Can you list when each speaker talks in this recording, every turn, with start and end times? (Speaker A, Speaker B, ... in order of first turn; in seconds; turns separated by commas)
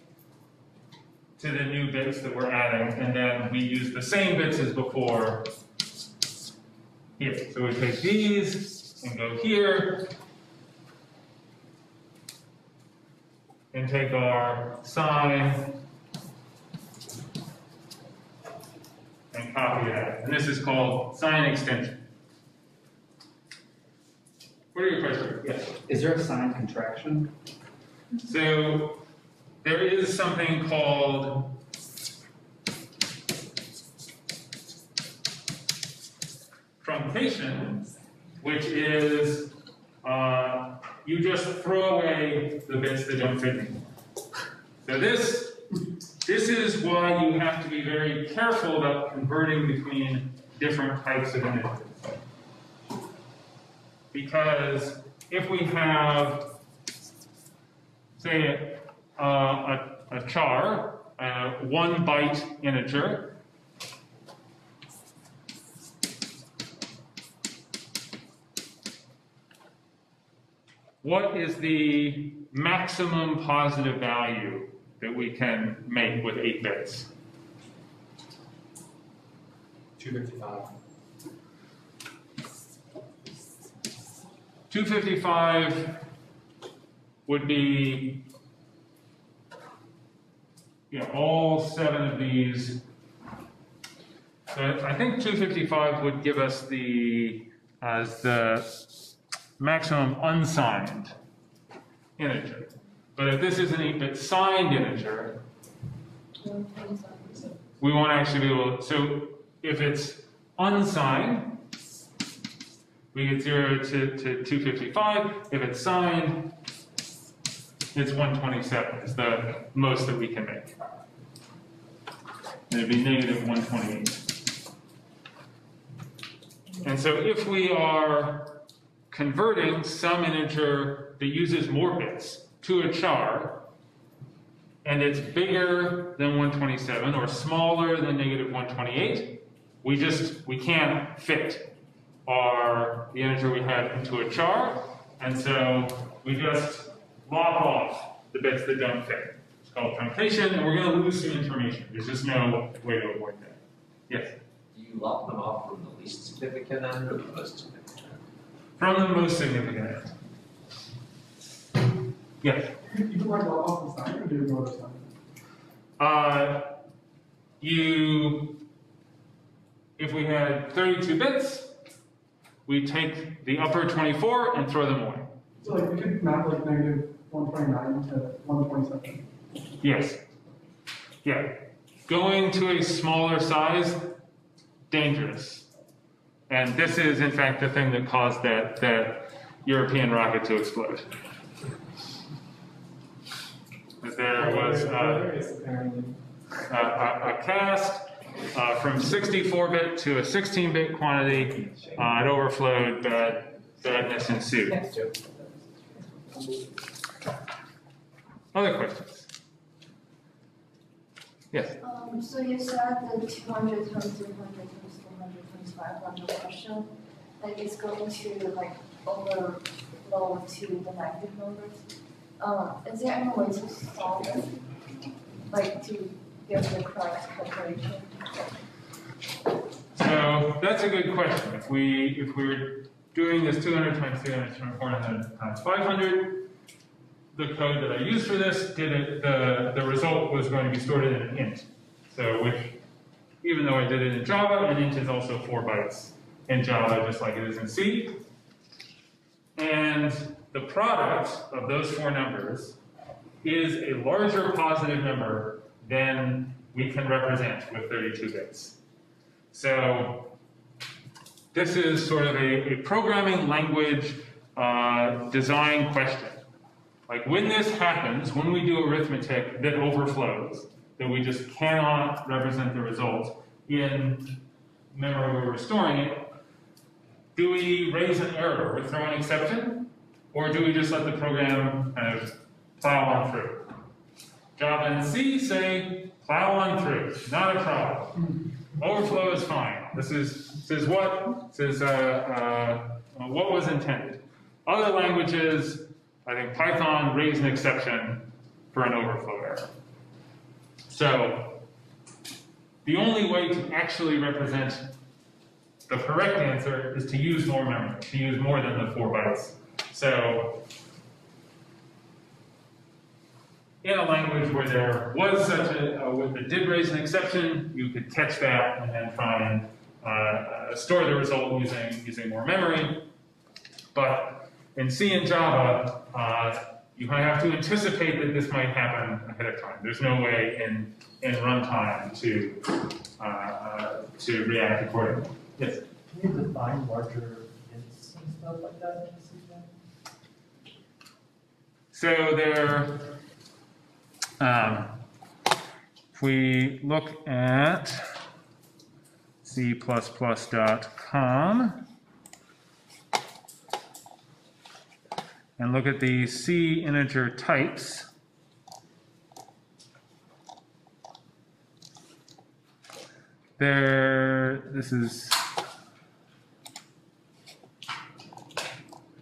Speaker A: 1.4-5.5, Speaker A: 7.2-10.1, Speaker A: 13.7-15.8, Speaker A: 19.3-22.0, Speaker A: 24.7-25.5, Speaker B: 25.4-27.3, Speaker A: 28.2-29.0, Speaker A: 29.6-31.6, Speaker A: 36.8-37.9, Speaker A: 38.4-43.8, Speaker A: 44.8-45.6, Speaker A: 46.2-52.1, Speaker A: 54.1-56.5, Speaker A: 58.2-63.4, Speaker A: 71.0-77.1, Speaker B: 80.0-80.7, Speaker A: 84.7-86.0, Speaker A: 87.2-88.2, Speaker A: 90.9-92.8, Speaker A: 94.5-99.0, Speaker A: 99.6-101.1, Speaker A: 102.2-105.4, Speaker C: 106.4-107.5, Speaker A: 107.8-111.6, Speaker A: 113.1-116.5, Speaker A: 117.9-120.7, Speaker A: 122.7-124.3, Speaker A: 126.8-133.7, Speaker A: 134.8-141.7, Speaker A: 142.2-154.3, Speaker D: 154.7-158.2, Speaker A: 158.8-160.1, Speaker A: 162.4-162.7, Speaker E: 162.8-165.1, Speaker A: 166.0-166.8, Speaker A: 167.6-168.6, Speaker A: 170.0-171.7, Speaker A: 172.7-175.3, Speaker E: 175.6-179.2, Speaker A: 179.8-180.2, Speaker A: 181.2-184.2, Speaker A: 184.9-185.7, Speaker A: 186.5-191.1, Speaker A: 194.0-195.3, Speaker E: 194.3-196.2, Speaker A: 196.7-204.8, Speaker B: 204.7-206.6, Speaker A: 208.5-209.3, Speaker A: 211.5-211.8, Speaker C: 211.8-221.8, Speaker C: 222.4-224.5, Speaker C: 225.5-228.2, Speaker A: 229.9-236.5, Speaker A: 237.3-242.8, Speaker A: 243.4-248.2, Speaker A: 249.6-252.8, Speaker A: 253.4-258.8, Speaker A: 259.5-260.3, Speaker A: 261.5-266.4, Speaker A: 267.1-274.4, Speaker A: 274.9-276.3, Speaker A: 277.3-283.7, Speaker A: 284.6-299.7, Speaker A: 300.9-301.6, Speaker A: 302.8-304.9, Speaker A: 305.9-310.6, Speaker A: 313.8-323.1, Speaker A: 323.9-335.8, Speaker B: 336.1-339.7, Speaker A: 341.9-343.2, Speaker A: 344.4-345.0, Speaker A: 346.1-348.0, Speaker A: 349.4-351.8, Speaker A: 355.6-358.1, Speaker A: 363.6-365.5